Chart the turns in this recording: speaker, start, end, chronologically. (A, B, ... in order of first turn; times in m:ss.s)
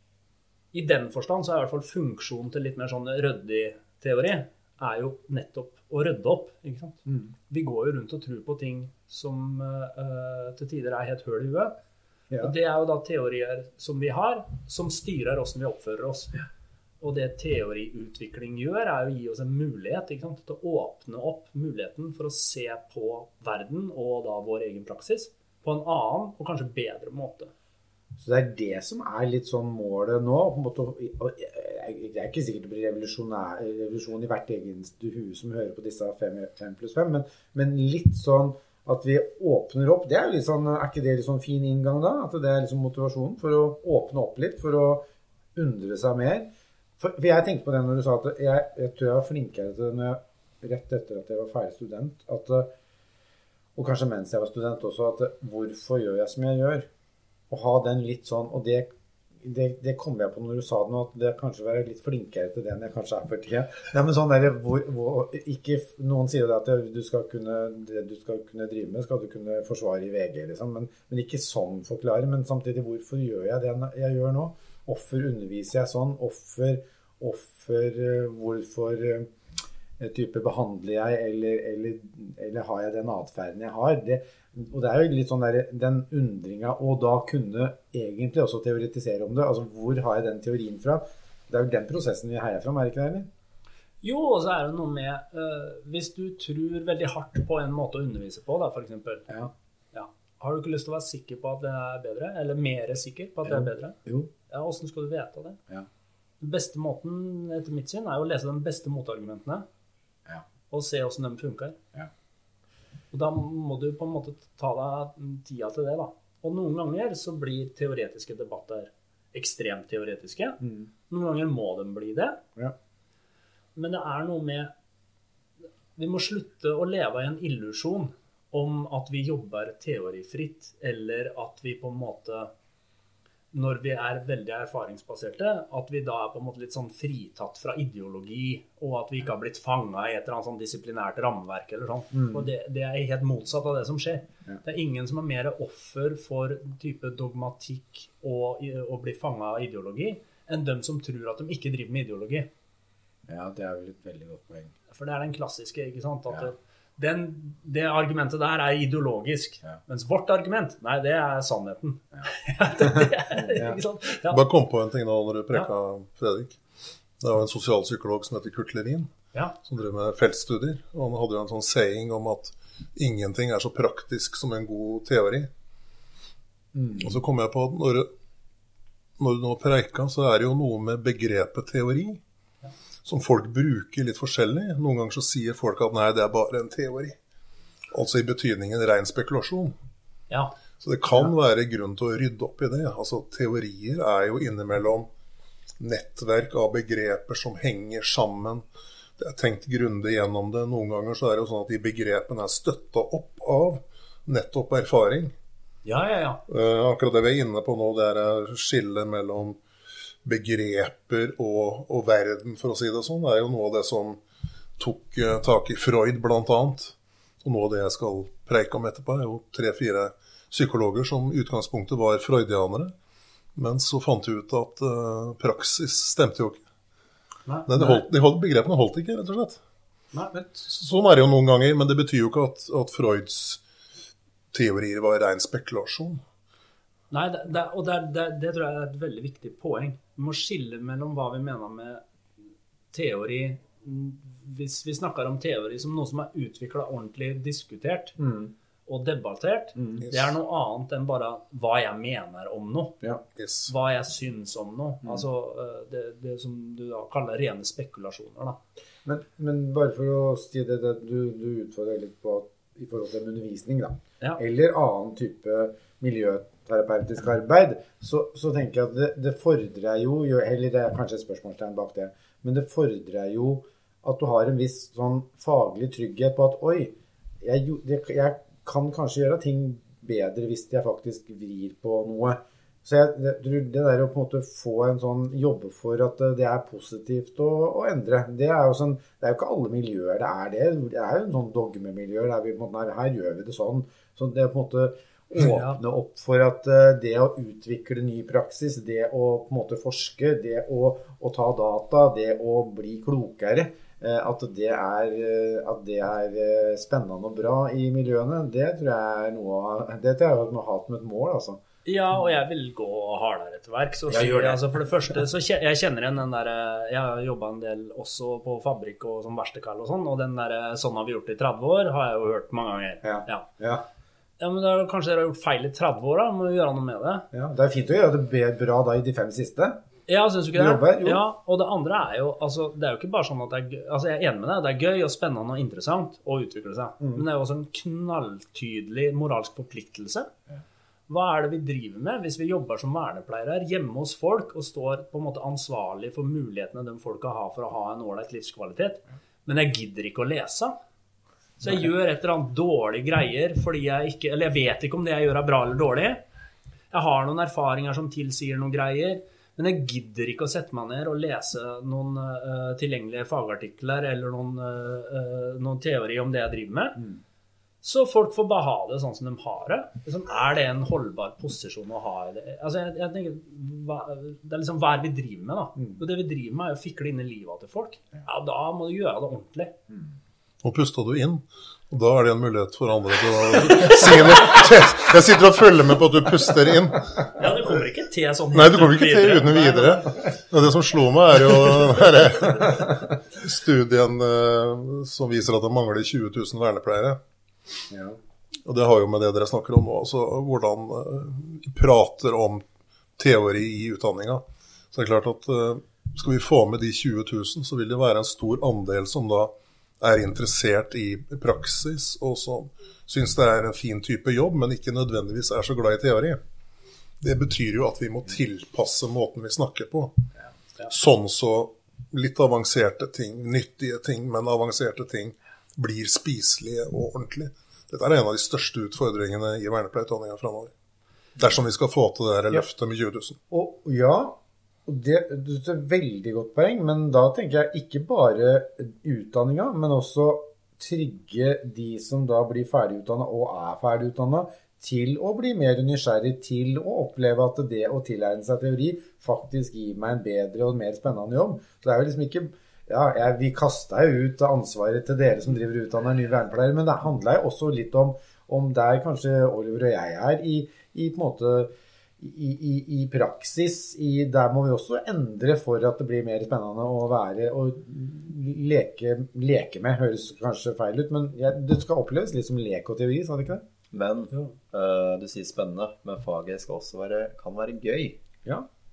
0:00.7-0:11.7 A
0:07.1-0:07.3 B
0:12.4-0:16.3 A
0:17.0-0:27.5 A
0:28.2-0:46.5 B
0:47.0-0:52.7 B
0:53.8-0:56.9 B
0:57.5-0:58.9 B
0:59.4-1:19.3 B
1:20.0-1:33.3 B
1:34.0-1:39.3 A
1:39.9-1:44.0 A
1:43.4-1:44.3 B
1:44.5-1:45.6 A
1:46.4-1:49.6 A
1:50.7-1:51.8 A
1:53.1-2:02.4 A
2:00.6-2:00.9 B
2:03.7-2:04.7 A
2:05.9-2:12.5 A
2:13.5-2:32.5 A
2:22.1-2:22.5 B
2:33.3-2:34.7 B
2:34.9-2:44.4 A
2:42.8-2:43.8 B
2:44.3-2:46.6 C
2:47.2-2:49.1 C
2:49.6-2:55.5 C
2:56.7-2:57.1 B
2:56.9-2:58.1 C
2:59.2-3:02.2 C
3:03.0-3:07.2 C
3:07.9-3:09.7 C
3:10.3-3:10.6 A
3:10.8-3:15.1 C
3:15.8-3:18.6 C
3:19.2-3:25.3 C
3:25.8-3:26.4 A
3:26.5-3:29.6 C
3:30.2-3:34.2 C
3:34.8-3:42.9 C
3:43.5-3:46.6 C
3:47.4-3:48.0 A
3:47.7-3:49.6 C
3:50.5-3:53.6 C
3:54.5-3:56.2 C
3:57.1-4:02.0 A
4:02.9-4:08.2 A
4:08.2-4:08.5 B
4:08.8-4:13.0 A
4:09.8-4:10.1 B
4:13.4-4:13.7 C
4:13.7-4:18.6 A
4:19.0-5:11.6 B
4:55.4-4:55.8 A
5:11.8-5:23.5 A
5:14.1-5:14.6 B
5:23.0-5:23.8 B
5:24.4-5:27.3 A
5:27.3-5:29.8 B
5:30.1-5:40.3 A
5:30.5-5:31.2 B
5:41.1-5:50.7 A
5:51.6-5:56.2 A
5:56.9-6:07.0 A
6:07.8-6:19.7 A
6:20.6-6:27.1 C
6:23.6-6:24.3 A
6:27.3-6:30.2 A
6:28.5-6:37.2 C
6:37.9-6:38.2 B
6:38.6-6:42.6 C
6:43.2-6:56.4 C
6:57.2-7:00.3 C
7:00.8-7:10.7 C
7:11.4-7:13.4 C
7:13.5-7:53.6 B
7:53.9-7:58.2 D